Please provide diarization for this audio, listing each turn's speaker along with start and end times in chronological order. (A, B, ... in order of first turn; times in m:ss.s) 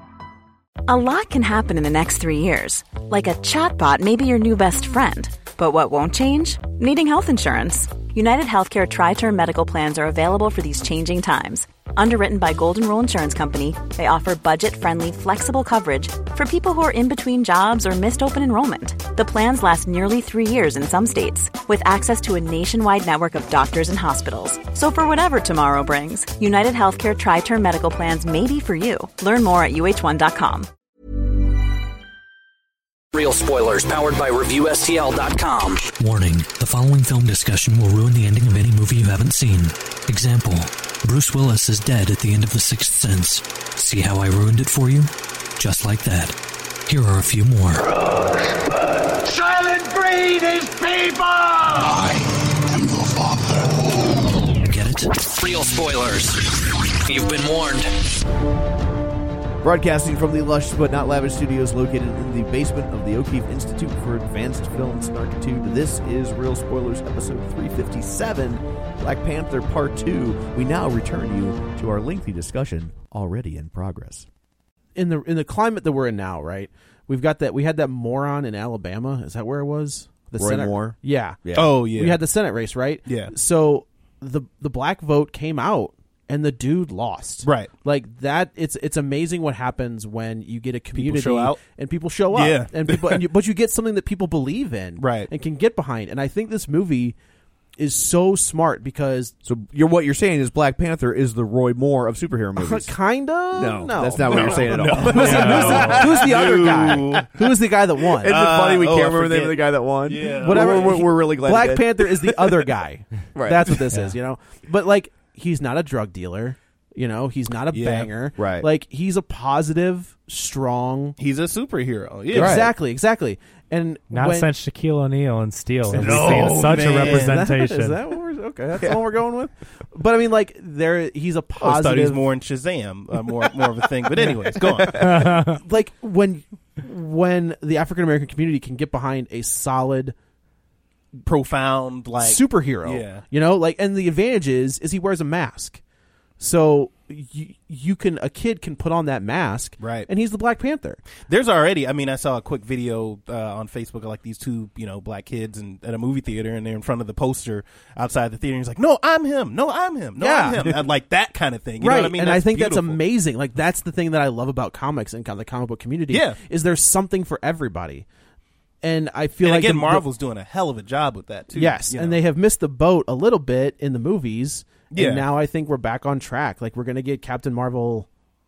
0:00.9-0:30.7 A
0:33.1-0:35.9 B
0:36.0-0:47.8 C
0:48.1-0:48.6 D
0:49.2-0:53.9 D
0:54.6-0:55.3 C
0:55.2-0:57.9 B
0:59.6-1:14.3 E
1:15.0-1:37.2 F
1:20.4-1:21.8 E
1:21.5-1:22.2 G
1:23.1-1:23.3 G
1:27.4-1:27.7 G
1:30.9-1:31.6 G
1:32.3-1:33.2 G
1:35.0-1:35.3 G
1:37.8-1:39.3 F
1:39.4-1:42.9 E
1:42.6-1:48.4 F
1:43.5-1:47.3 E
1:44.2-1:47.3 G
1:45.2-1:46.1 H
1:48.2-1:52.4 E
1:48.2-1:51.0 G
1:50.3-2:01.2 F
1:53.3-1:53.9 E
1:57.7-1:58.1 G
1:58.4-1:58.7 E
2:01.2-2:02.7 G
2:02.3-2:04.5 F
2:02.3-2:02.7 E
2:04.1-2:08.0 H
2:05.9-2:12.2 F
2:05.9-2:07.4 G
2:08.7-2:09.0 E
2:11.6-2:15.2 G
2:14.2-2:20.2 F
2:14.9-2:15.6 H
2:21.2-2:23.2 G
2:22.2-2:25.8 F
2:26.4-2:31.0 F
2:29.8-2:30.1 G
2:31.2-2:43.0 G
2:40.2-2:40.8 F
2:41.8-2:48.1 F
2:46.1-2:46.4 G
2:48.8-2:50.0 F
2:49.4-2:52.2 G
2:51.5-2:58.1 F
2:54.9-2:55.3 G